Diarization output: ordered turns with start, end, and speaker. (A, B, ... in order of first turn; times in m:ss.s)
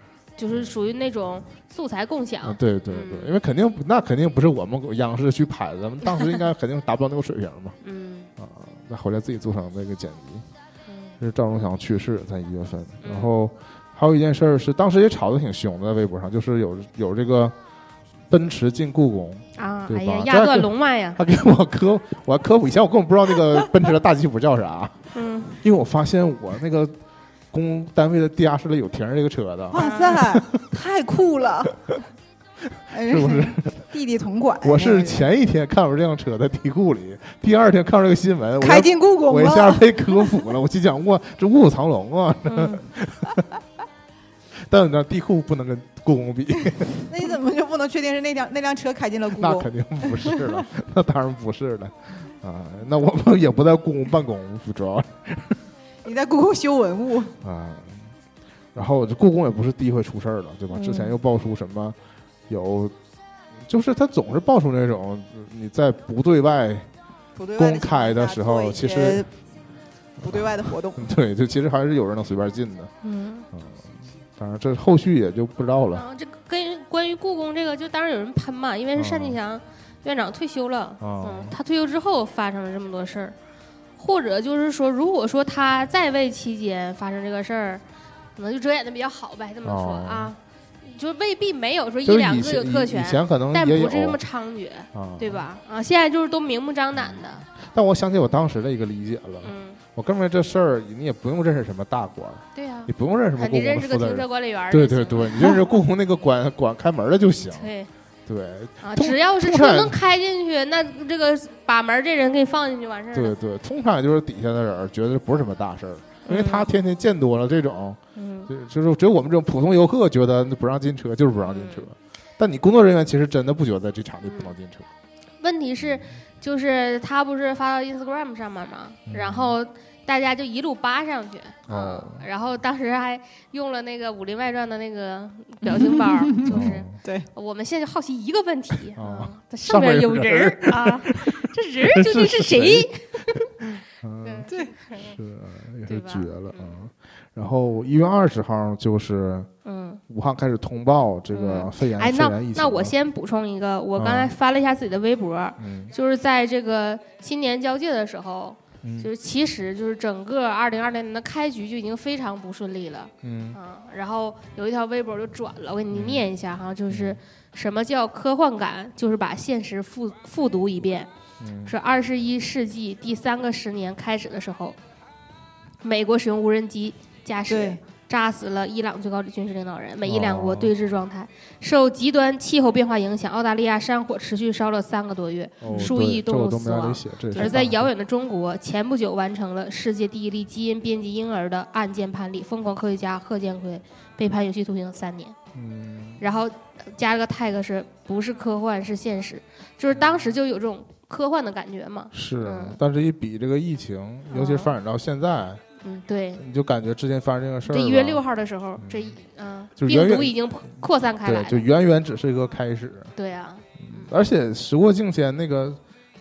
0:00.4-0:03.3 A
0:02.4-0:07.8 B
0:07.8-0:08.3 A
0:08.4-0:10.4 B
0:10.9-0:11.1 A
0:11.2-0:17.5 B
0:13.0-0:13.3 A
0:18.3-0:26.9 B
0:19.6-0:21.2 A
0:25.1-0:25.6 A
0:27.5-0:30.6 B
0:29.7-0:31.8 C
0:29.7-0:30.2 A
0:32.9-0:35.2 C
0:33.0-0:33.8 B
0:34.6-0:43.5 B
0:38.6-0:40.3 C
0:42.5-0:42.8 A
0:44.5-0:47.1 B
0:46.9-0:50.6 C
0:49.4-0:55.6 B
0:56.0-0:57.3 C
0:57.4-0:58.1 B
0:58.7-1:02.0 B
1:00.8-1:01.1 A
1:02.5-1:02.9 B
1:03.6-1:06.9 B
1:07.4-1:09.3 C
1:07.6-1:09.3 B
1:10.2-1:12.9 B
1:10.2-1:11.1 C
1:13.0-1:13.5 A
1:13.5-1:16.0 B
1:15.9-1:23.3 A
1:19.0-1:19.4 B
1:21.0-1:21.6 B
1:24.0-1:27.8 A
1:28.4-1:37.5 A
1:29.6-1:30.3 B
1:32.0-1:34.2 B
1:34.9-1:35.5 B
1:37.0-1:47.7 B
1:39.4-1:39.8 A
1:42.5-1:45.6 A
1:47.5-1:47.9 A
1:48.2-1:50.0 B
1:48.8-1:53.3 A
1:53.1-2:04.9 B
1:56.2-1:56.7 A
1:58.2-1:58.5 A
2:01.4-2:01.9 A
2:04.2-2:04.5 A
2:05.4-2:25.1 A
2:09.1-2:09.6 B
2:11.7-2:12.2 B
2:15.6-2:17.3 C
2:16.4-2:16.9 B
2:18.9-2:23.4 B
2:24.0-2:29.5 B
2:24.5-2:24.7 C
2:25.9-2:26.8 A
2:29.6-2:30.0 A
2:30.1-2:32.9 B
2:31.3-2:51.1 A
2:34.0-2:34.3 B
2:35.6-2:35.9 B
2:38.8-2:39.1 B
2:43.2-2:43.6 B
2:45.9-2:46.3 B
2:46.9-2:47.2 B
2:51.4-2:51.8 B
2:51.6-2:54.8 A
2:55.8-3:15.4 A
2:57.5-2:57.8 C
3:00.0-3:00.7 B
3:05.6-3:07.9 B
3:05.6-3:05.9 C
3:15.5-3:16.2 B
3:16.2-3:22.8 A
3:19.9-3:20.2 B
3:22.1-3:25.6 B
3:24.3-3:24.7 A
3:25.8-3:26.4 A
3:26.4-3:28.2 B
3:27.7-3:31.6 A
3:28.8-3:29.1 B
3:29.8-3:30.4 B
3:31.2-3:33.1 B
3:33.2-3:34.1 A
3:33.8-3:35.8 B